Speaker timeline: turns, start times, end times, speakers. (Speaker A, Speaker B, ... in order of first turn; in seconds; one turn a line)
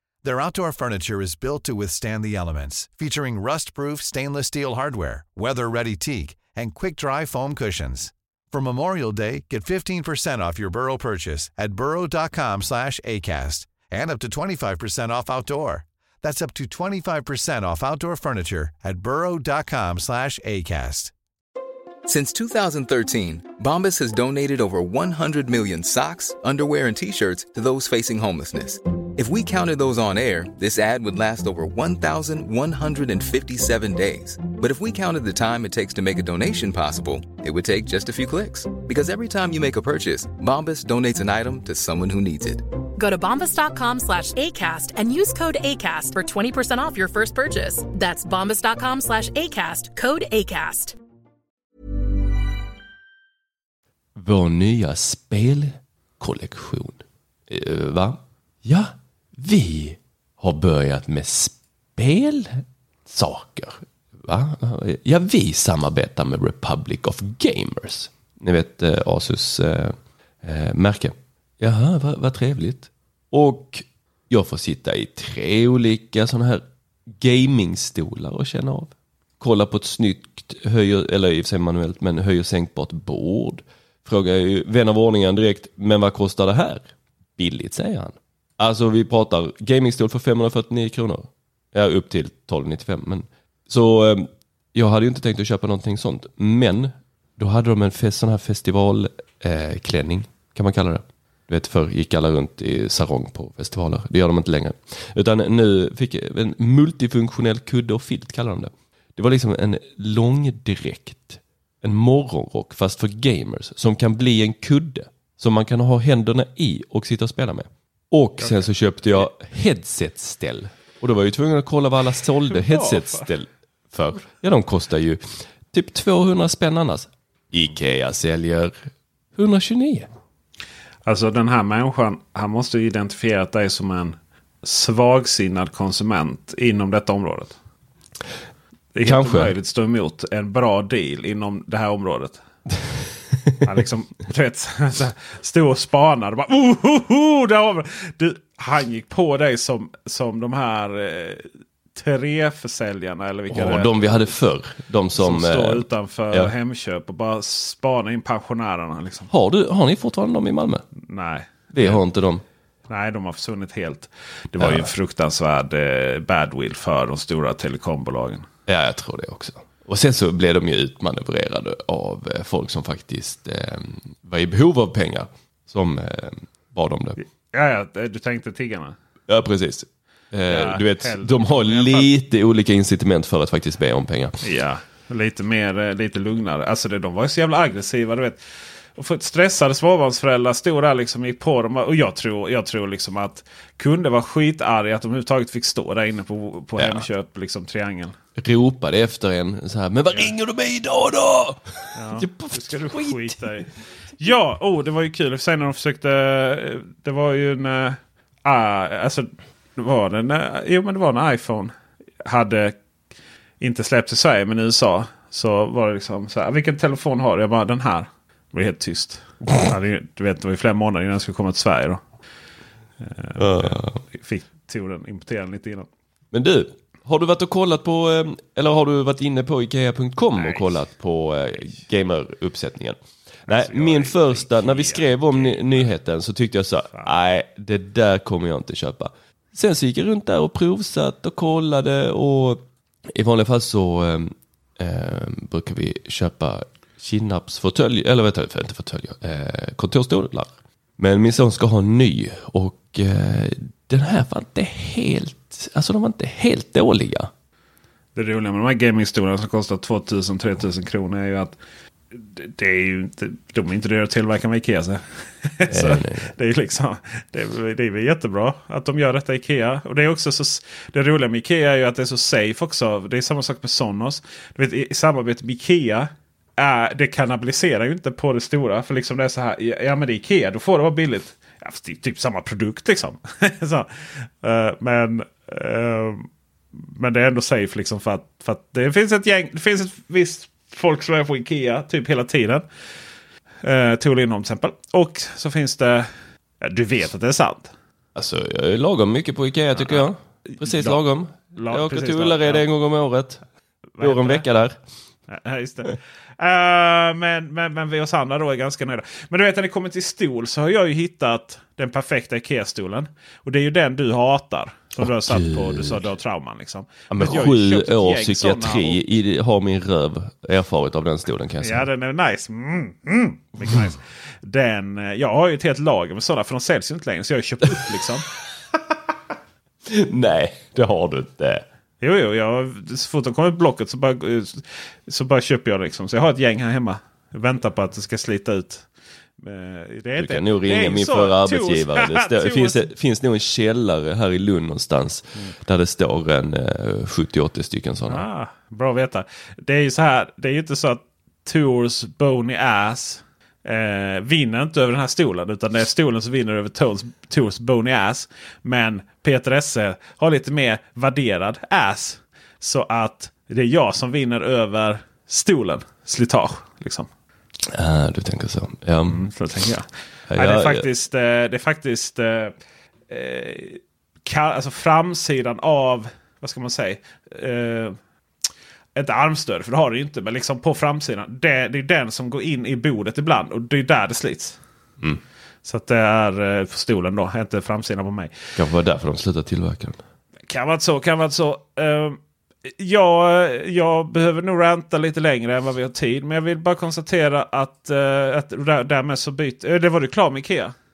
Speaker A: 0.2-21.1
Speaker B: 22.1-42.6
Speaker C: 43.0-51.0
Speaker D: 54.1-130.1
Speaker E: 118.4-118.7
Speaker E: 122.5-123.3
Speaker E: 131.1-137.6
Speaker E: 138.9-142.4
Speaker D: 139.1-139.5
Speaker E: 143.6-154.3
Speaker D: 153.5-156.5
Speaker E: 155.2-159.3
Speaker D: 159.3-160.8
Speaker E: 161.0-162.0
Speaker D: 161.7-162.4
Speaker E: 162.9-168.5
Speaker D: 164.6-164.9
Speaker D: 168.7-177.2
Speaker E: 177.2-178.9
Speaker D: 179.3-184.4
Speaker E: 180.5-182.1
Speaker E: 184.4-188.4
Speaker E: 189.0-198.2
Speaker D: 196.8-197.1
Speaker D: 198.4-203.7
Speaker E: 201.9-212.8
Speaker E: 213.6-222.0
Speaker E: 223.0-225.9
Speaker D: 223.4-224.0
Speaker D: 226.3-257.3
Speaker E: 230.3-230.8
Speaker E: 233.5-235.9
Speaker E: 258.2-261.6
Speaker E: 262.1-292.6
Speaker D: 265.7-266.3
Speaker E: 293.6-296.1
Speaker E: 296.6-297.7
Speaker D: 298.1-303.4
Speaker E: 299.7-301.0
Speaker E: 301.5-302.7
Speaker E: 303.9-304.5
Speaker D: 304.0-304.8
Speaker E: 305.3-319.0
Speaker D: 315.0-316.1
Speaker D: 317.1-321.9
Speaker E: 321.6-328.3
Speaker D: 323.6-323.9
Speaker D: 329.9-331.6
Speaker E: 332.0-338.9
Speaker E: 339.4-342.9
Speaker D: 340.2-348.3
Speaker E: 348.1-367.1
Speaker D: 367.7-369.2
Speaker E: 369.1-372.5
Speaker D: 370.3-370.9
Speaker E: 373.1-378.0
Speaker E: 378.9-384.6
Speaker E: 385.6-388.3
Speaker D: 388.6-390.0
Speaker E: 390.5-400.7